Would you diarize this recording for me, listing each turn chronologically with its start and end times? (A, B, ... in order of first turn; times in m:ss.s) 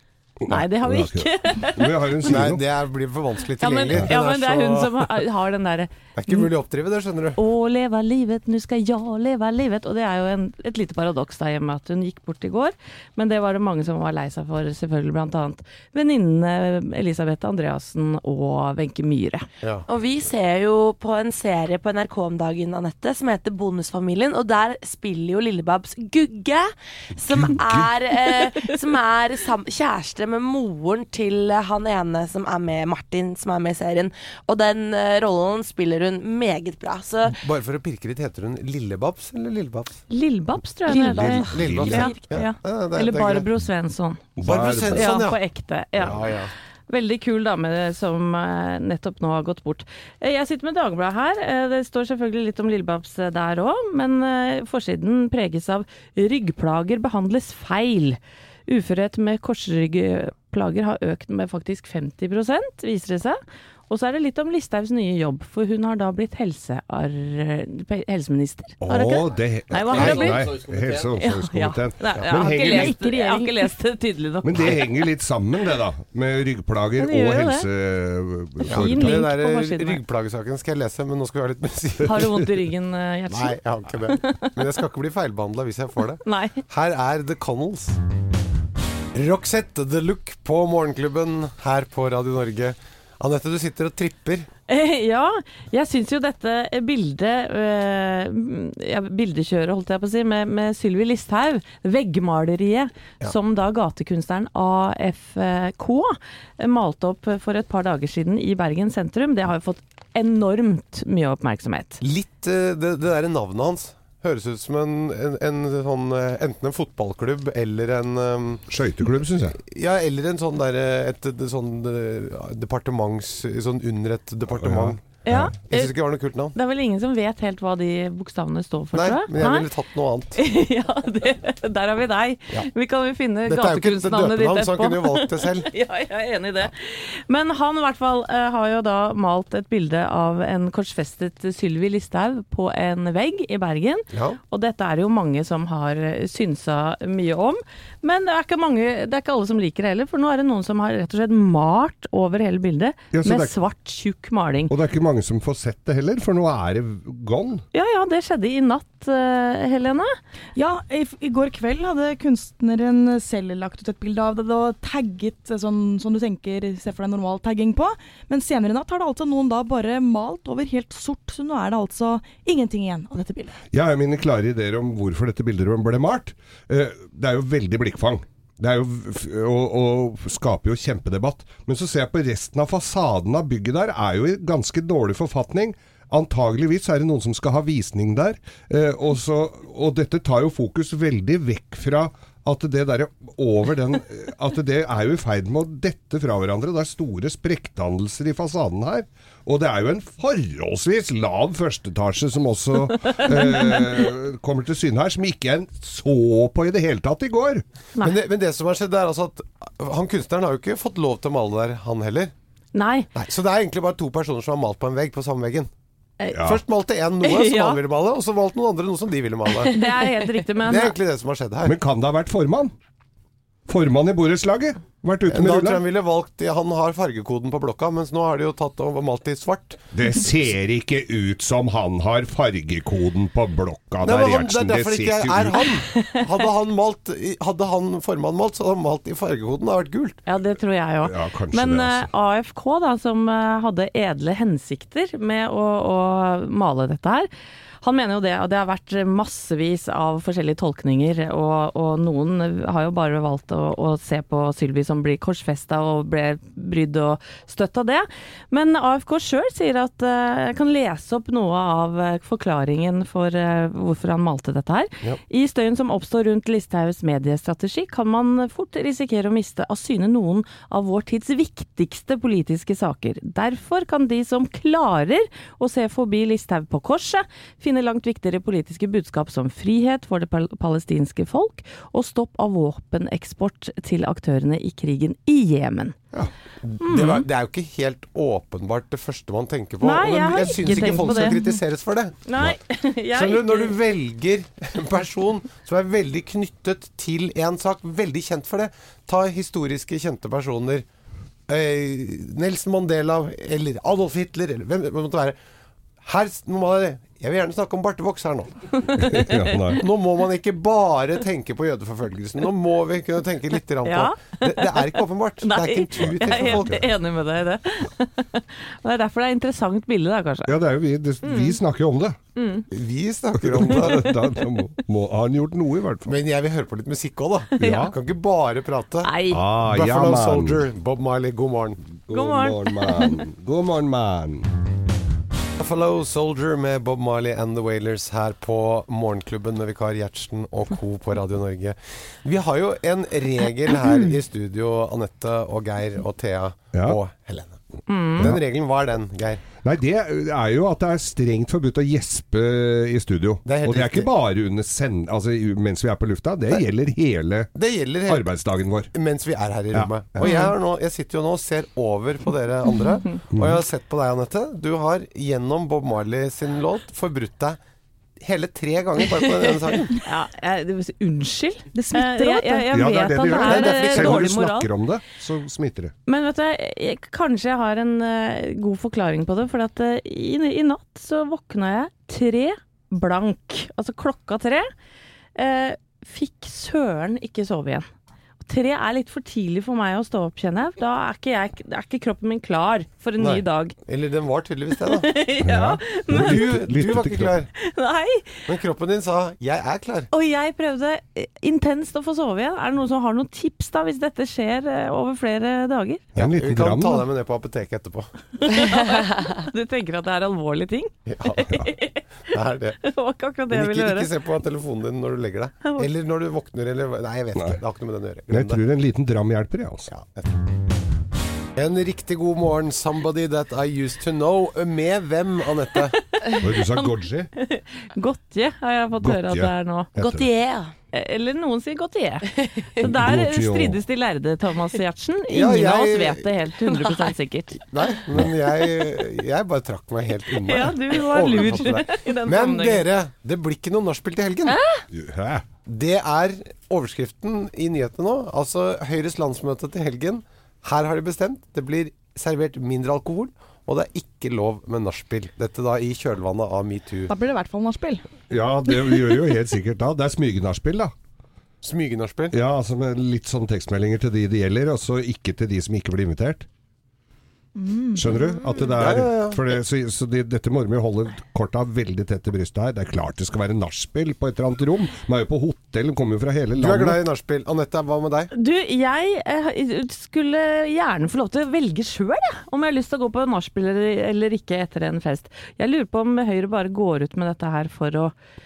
0:00.4-0:02.6 A
0:00.5-0:02.5 B
0:02.2-0:05.0 C
0:03.6-0:06.5 B
0:06.2-0:07.4 C
0:07.4-0:19.5 B
0:19.9-0:37.4 D
0:27.2-0:27.9 A
0:37.3-0:40.0 C
0:40.1-0:46.3 B
0:40.9-0:42.3 D
0:41.2-0:42.4 A
0:41.4-0:43.5 C
0:44.4-0:45.2 A
0:44.4-0:45.4 C
0:46.0-0:46.5 C
0:46.9-1:15.1 B
1:08.8-1:13.1 A
1:14.4-1:19.3 A
1:17.0-1:17.7 B
1:18.6-1:20.0 B
1:18.7-1:22.2 C
1:22.1-1:24.5 B
1:22.1-1:22.5 A
1:23.3-1:28.0 C
1:26.2-1:26.6 B
1:29.1-1:34.5 C
1:34.7-1:52.0 B
1:52.0-1:58.6 C
1:58.7-1:59.6 A
1:59.6-2:05.0 C
2:04.6-2:05.5 A
2:05.2-2:06.0 B
2:05.6-2:06.6 C
2:06.5-2:09.7 B
2:08.9-2:10.4 C
2:10.4-2:34.7 B
2:13.5-2:15.7 C
2:24.1-2:24.4 C
2:33.1-2:33.5 A
2:34.7-2:37.6 A
2:37.7-2:40.2 B
2:40.6-2:53.6 E
2:53.7-3:27.6 A
3:23.1-3:23.9 B
3:28.0-3:32.3 C
3:32.7-3:33.1 B
3:33.2-3:35.7 C
3:36.3-3:36.6 A
3:36.4-3:39.8 C
3:37.2-3:37.8 B
3:39.7-3:41.0 B
3:40.6-3:41.8 C
3:41.6-3:42.7 A
3:43.7-3:45.8 A
3:45.3-3:49.8 C
3:49.9-3:55.6 A
3:54.0-4:00.2 C
4:00.3-4:07.3 B
4:01.0-4:02.1 A
4:07.8-4:46.0 B
4:46.6-4:52.2 C
4:46.8-4:47.3 B
4:49.8-4:51.4 B
4:50.8-4:51.4 E
4:52.3-4:53.8 B
4:53.1-5:00.9 C
5:01.5-5:05.4 C
5:06.0-5:08.5 C
5:09.0-5:09.8 A
5:09.1-5:09.7 B
5:09.8-5:16.8 C
5:13.8-5:20.6 B
5:16.0-5:16.9 A
5:20.5-5:22.2 A
5:21.2-5:21.6 B
5:22.4-5:22.7 B
5:22.7-5:24.1 C
5:23.4-5:26.2 A
5:23.8-5:24.2 B
5:26.1-5:29.1 C
5:27.6-5:27.9 A
5:27.6-5:27.9 B
5:29.0-5:29.4 B
5:29.3-5:30.6 A
5:29.6-5:31.8 C
5:32.1-5:34.5 A
5:32.1-5:33.2 B
5:35.6-5:47.6 C
5:47.9-5:48.4 B
5:48.2-5:49.4 C
5:49.6-5:57.5 A
5:53.4-5:54.1 C
5:57.5-5:58.3 C
5:58.1-5:58.9 A
5:58.9-6:07.6 C
5:59.7-6:00.4 A
6:03.3-6:03.6 A
6:08.2-6:10.0 C
6:10.0-6:14.7 B
6:11.7-6:12.7 E
6:12.7-6:15.9 A
6:13.4-6:14.3 C
6:16.1-6:24.7 B
6:25.4-6:27.9 B
6:28.4-6:33.8 B
6:33.2-6:35.1 C
6:34.8-6:36.8 B
6:35.4-6:37.4 A
6:36.1-6:37.5 C
6:37.6-6:38.4 B
6:38.5-6:40.1 C
6:40.1-6:46.1 B
6:46.2-6:47.1 A
6:46.2-6:48.1 C
6:48.5-6:52.0 B
6:49.0-6:49.3 D
6:51.1-6:51.5 C
6:52.3-6:52.8 C
6:52.8-6:54.1 B
6:53.5-6:58.6 C
6:57.4-6:57.6 A
6:58.3-6:59.9 A
6:59.9-7:00.3 C
7:01.6-7:06.0 C
7:06.2-7:09.9 B
7:06.4-7:07.3 A
7:09.0-7:10.3 A
7:10.0-7:10.7 D
7:10.9-7:17.6 B
7:12.8-7:13.8 A
7:15.3-7:16.3 C
7:16.8-7:17.1 D
7:17.7-7:24.6 C
7:20.4-7:22.9 B
7:24.5-7:24.8 D
7:24.9-7:25.5 A
7:25.7-7:37.1 C
7:37.1-7:38.0 E
7:38.3-7:40.9 A
7:41.6-7:42.4 C
7:42.3-7:46.5 A
7:47.6-7:48.2 E
7:48.0-7:57.0 A
7:48.6-7:49.4 C
7:56.6-7:58.3 C
7:58.3-8:08.1 B